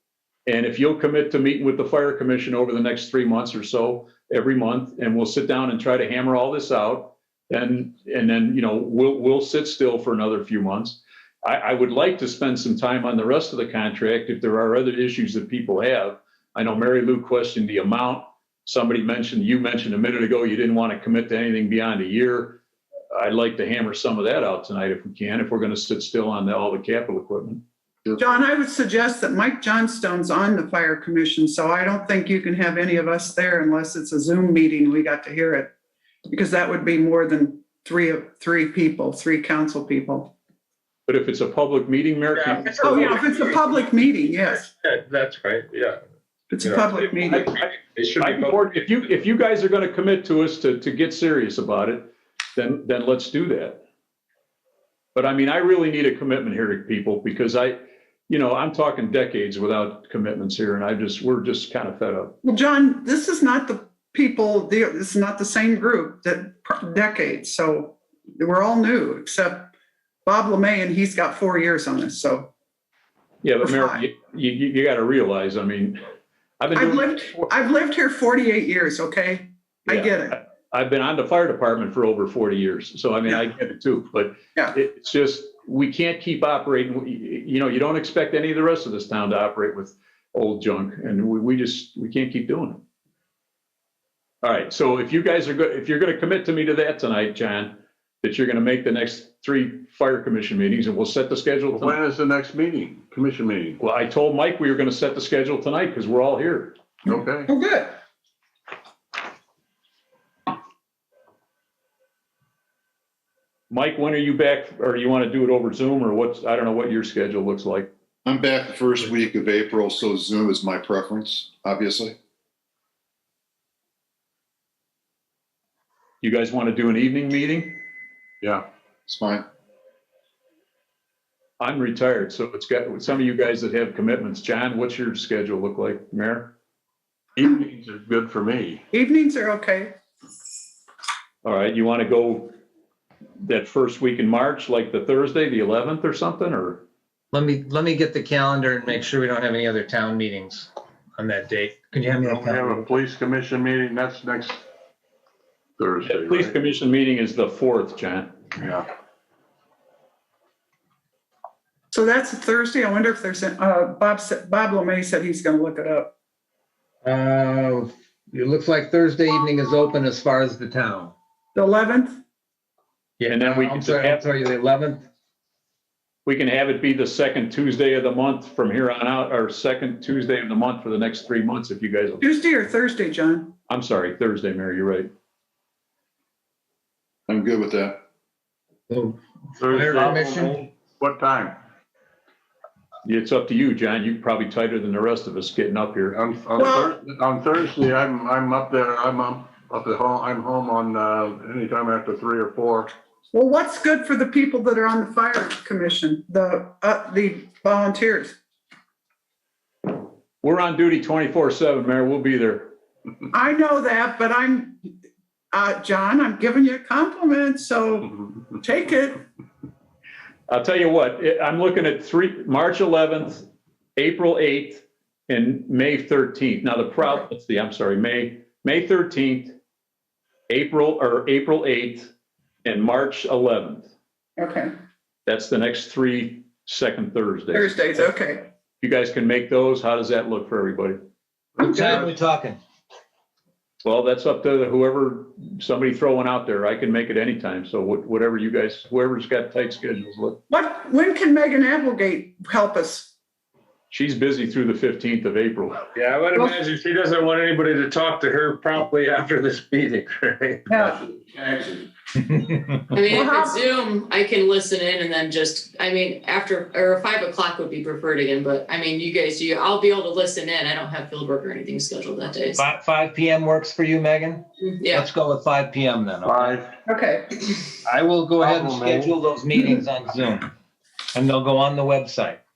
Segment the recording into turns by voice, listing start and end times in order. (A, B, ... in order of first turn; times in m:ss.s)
0:00.5-0:22.6 A
0:23.1-0:27.6 A
0:28.2-0:35.7 B
0:36.3-0:40.3 B
0:41.1-0:43.2 A
0:42.8-0:43.5 C
0:42.8-0:44.7 B
0:44.4-0:46.0 C
0:46.5-0:47.5 B
0:46.6-0:48.6 C
0:48.2-0:53.8 A
0:55.1-1:02.4 A
1:02.4-1:09.7 B
1:10.2-1:12.5 B
1:13.4-1:16.0 A
1:13.6-1:14.0 B
1:16.6-1:17.5 A
1:16.7-1:20.4 B
1:19.9-1:32.8 A
1:34.4-1:42.0 A
1:41.7-1:43.8 D
1:43.8-1:46.8 A
1:47.0-1:47.5 D
1:47.5-1:48.0 B
1:53.7-1:57.9 A
1:58.2-2:02.2 E
2:06.2-2:07.8 A
2:09.1-2:09.4 E
2:11.6-2:16.5 A
2:17.4-2:18.8 D
2:18.9-2:19.9 B
2:21.4-2:22.6 A
2:23.4-2:26.8 A
2:27.3-2:32.8 F
2:32.2-2:34.6 D
2:35.8-2:36.5 D
2:36.1-2:38.4 A
2:38.6-2:38.9 D
2:41.9-2:46.1 B
2:47.0-2:51.1 F
2:51.5-2:52.2 B
2:53.2-2:55.0 F
2:53.3-2:54.2 A
2:56.2-3:02.2 A
3:02.2-3:03.5 B
3:03.7-3:05.1 A
3:07.3-3:08.0 E
3:08.9-3:10.6 F
3:09.6-3:11.6 D
3:13.0-3:16.2 A
3:16.1-3:22.9 D
3:16.6-3:16.9 B
3:23.3-3:28.4 B
3:30.4-3:32.7 A
3:33.3-3:34.8 B
3:35.5-3:39.2 B
3:40.5-3:43.4 A
3:44.0-3:49.6 A
3:50.5-3:52.1 A
3:52.6-3:53.9 A
3:54.4-3:54.7 B
3:55.2-3:58.1 A
3:57.5-3:58.5 B
3:58.8-4:01.0 A
4:01.6-4:02.1 D
4:01.6-4:02.6 F
4:03.8-4:10.4 A
4:10.5-4:13.1 B
4:13.9-4:15.9 A
4:16.0-4:21.7 C
4:20.7-4:21.0 B
4:22.3-4:22.6 F
4:22.9-4:32.6 G
4:23.1-4:23.6 B
4:32.6-4:36.5 F
4:34.6-4:35.0 G
4:36.2-4:36.7 D
4:36.8-4:37.6 B
4:37.8-4:40.5 F
4:38.4-4:39.1 D
4:41.1-4:42.4 F